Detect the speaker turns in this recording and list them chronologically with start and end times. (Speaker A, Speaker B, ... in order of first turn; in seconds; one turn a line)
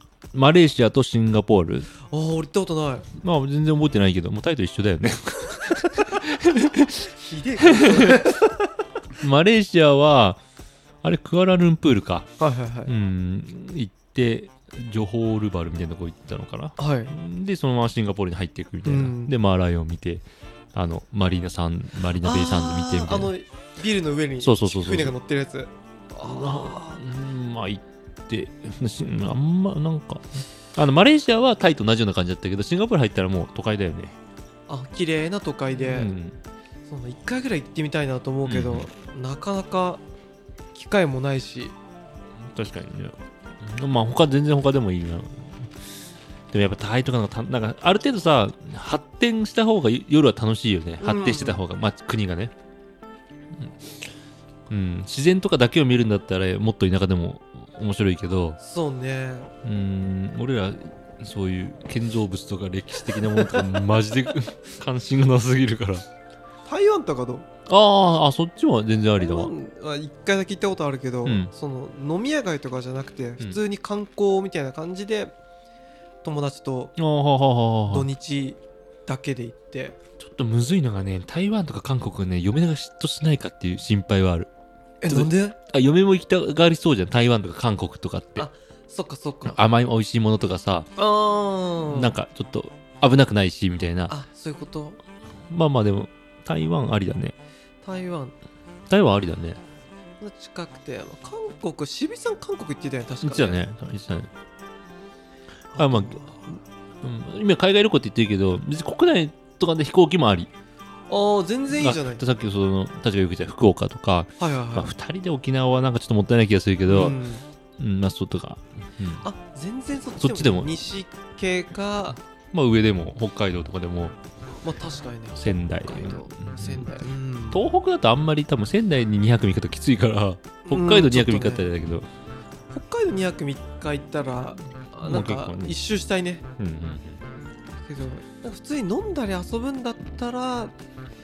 Speaker A: 0.3-1.9
Speaker B: 2.1-3.1
Speaker A: 3.1-7.1
Speaker B: 7.2-8.5
Speaker A: 7.6-8.4
Speaker A: 9.2-10.4
Speaker A: 11.0-12.3
Speaker B: 12.4-12.9
Speaker A: 12.8-23.3
Speaker B: 16.8-17.1
Speaker B: 18.9-19.3
Speaker B: 22.2-27.0
Speaker A: 24.4-25.1
Speaker A: 26.2-34.2
Speaker B: 34.7-36.1
Speaker A: 35.7-36.4
Speaker B: 36.9-40.0
Speaker A: 38.5-38.9
Speaker B: 40.7-41.8
Speaker A: 42.4-45.7
Speaker A: 46.5-52.5
Speaker B: 51.0-51.6
Speaker A: 54.7-58.6
Speaker B: 58.6-59.5
Speaker A: 59.6-66.0
Speaker B: 63.4-63.6
Speaker B: 66.7-67.5
Speaker A: 67.7-69.5
Speaker B: 69.2-75.3
Speaker A: 71.2-71.5
Speaker B: 76.2-77.0
Speaker A: 77.0-78.1
Speaker B: 77.9-80.0
Speaker A: 80.2-84.5
Speaker B: 85.0-85.6
Speaker A: 85.1-88.5
Speaker B: 88.4-89.6
Speaker A: 89.5-90.9
Speaker B: 91.0-92.2
Speaker A: 91.9-94.2
Speaker B: 94.1-95.0
Speaker A: 95.5-97.4
Speaker B: 97.8-98.3
Speaker A: 98.9-99.6
Speaker B: 100.2-103.6
Speaker A: 103.2-104.3
Speaker B: 105.7-106.5
Speaker A: 105.8-110.5
Speaker B: 111.1-112.2
Speaker A: 111.7-117.2
Speaker B: 114.4-114.9
Speaker B: 116.9-117.5
Speaker A: 117.8-119.2
Speaker B: 119.2-122.2
Speaker A: 120.2-120.7
Speaker A: 122.5-124.2
Speaker B: 124.6-127.6
Speaker A: 125.3-127.0
Speaker A: 127.5-132.1
Speaker B: 130.7-131.7
Speaker B: 132.7-136.4
Speaker A: 135.0-135.8
Speaker A: 136.6-137.2
Speaker B: 137.9-140.7